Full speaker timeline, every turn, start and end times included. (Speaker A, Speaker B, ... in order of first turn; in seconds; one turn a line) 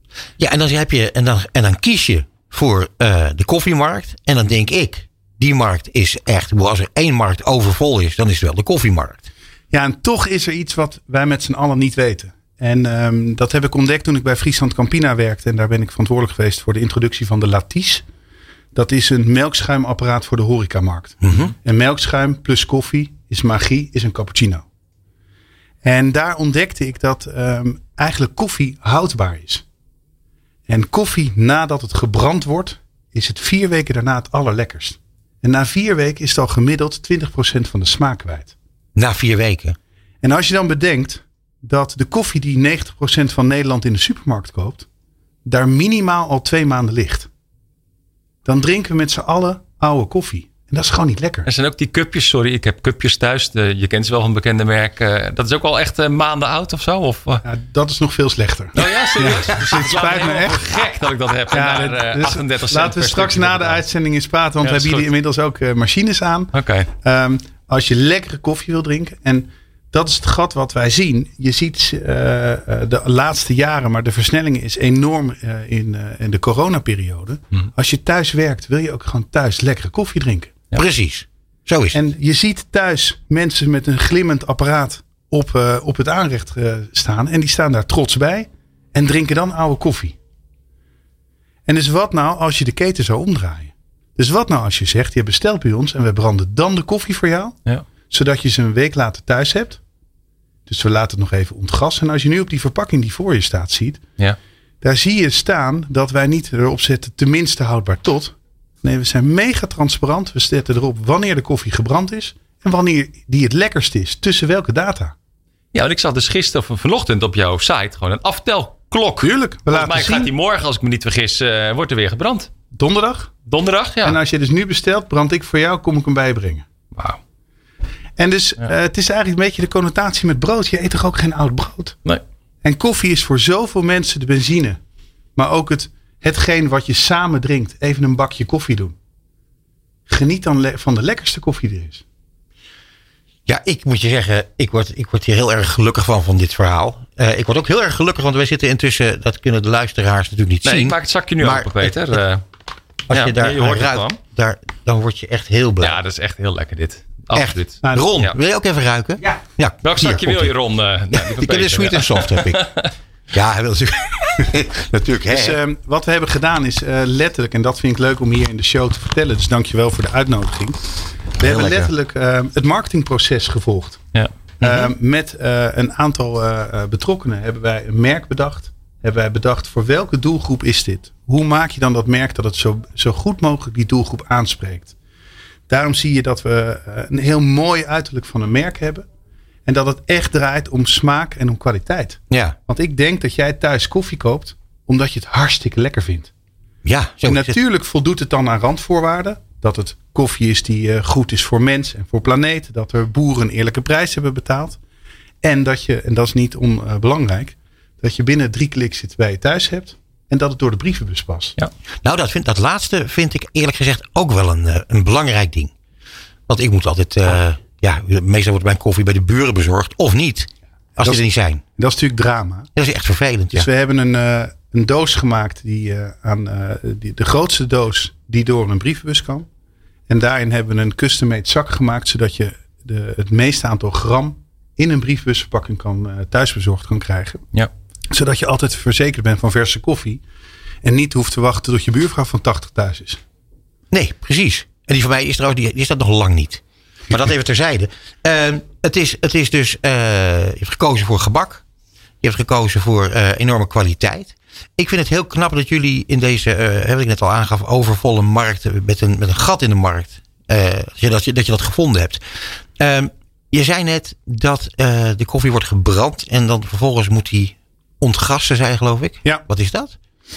Speaker A: 0.4-9.3
Speaker B: 9.7-18.0
Speaker B: 18.7-24.6
Speaker A: 21.2-21.5
Speaker B: 25.8-29.6
Speaker B: 30.7-38.5
Speaker A: 39.0-39.8
Speaker B: 40.2-44.9
Speaker B: 45.4-47.3
Speaker B: 48.4-51.5
Speaker C: 51.5-57.4
Speaker B: 57.4-60.8
Speaker C: 58.8-63.8
Speaker B: 61.5-80.5
Speaker C: 64.6-65.1
Speaker C: 66.5-66.9
Speaker A: 80.7-82.0
Speaker B: 81.9-90.2
Speaker B: 91.7-97.5
Speaker B: 98.1-99.8
Speaker B: 100.7-104.0
Speaker B: 104.8-115.1
Speaker C: 115.7-122.5
Speaker B: 119.2-120.3
Speaker B: 122.7-123.3
Speaker C: 123.5-124.2
Speaker B: 124.0-126.6
Speaker B: 128.2-131.9
Speaker B: 132.6-134.8
Speaker B: 135.3-138.9
Speaker B: 140.1-142.0
Speaker A: 143.4-152.0
Speaker C: 150.6-152.4
Speaker A: 153.1-156.0
Speaker C: 153.1-154.2
Speaker C: 155.8-158.3
Speaker A: 157.3-160.5
Speaker B: 157.8-158.2
Speaker C: 159.8-162.6
Speaker A: 161.1-162.7
Speaker A: 163.3-165.6
Speaker B: 165.3-170.8
Speaker B: 171.4-174.0
Speaker A: 171.4-171.9
Speaker A: 174.6-174.9
Speaker B: 174.6-184.9
Speaker B: 185.7-189.0
Speaker B: 189.6-196.3
Speaker A: 192.3-192.6
Speaker A: 196.8-197.6
Speaker B: 197.2-204.8
Speaker B: 205.4-211.6
Speaker A: 212.0-215.7
Speaker A: 216.5-221.6
Speaker B: 221.0-222.7
Speaker A: 222.8-223.7
Speaker B: 223.5-229.5
Speaker B: 230.1-237.4
Speaker B: 238.1-240.2
Speaker B: 240.8-243.2
Speaker A: 243.9-251.6
Speaker A: 252.2-262.2
Speaker A: 262.8-270.0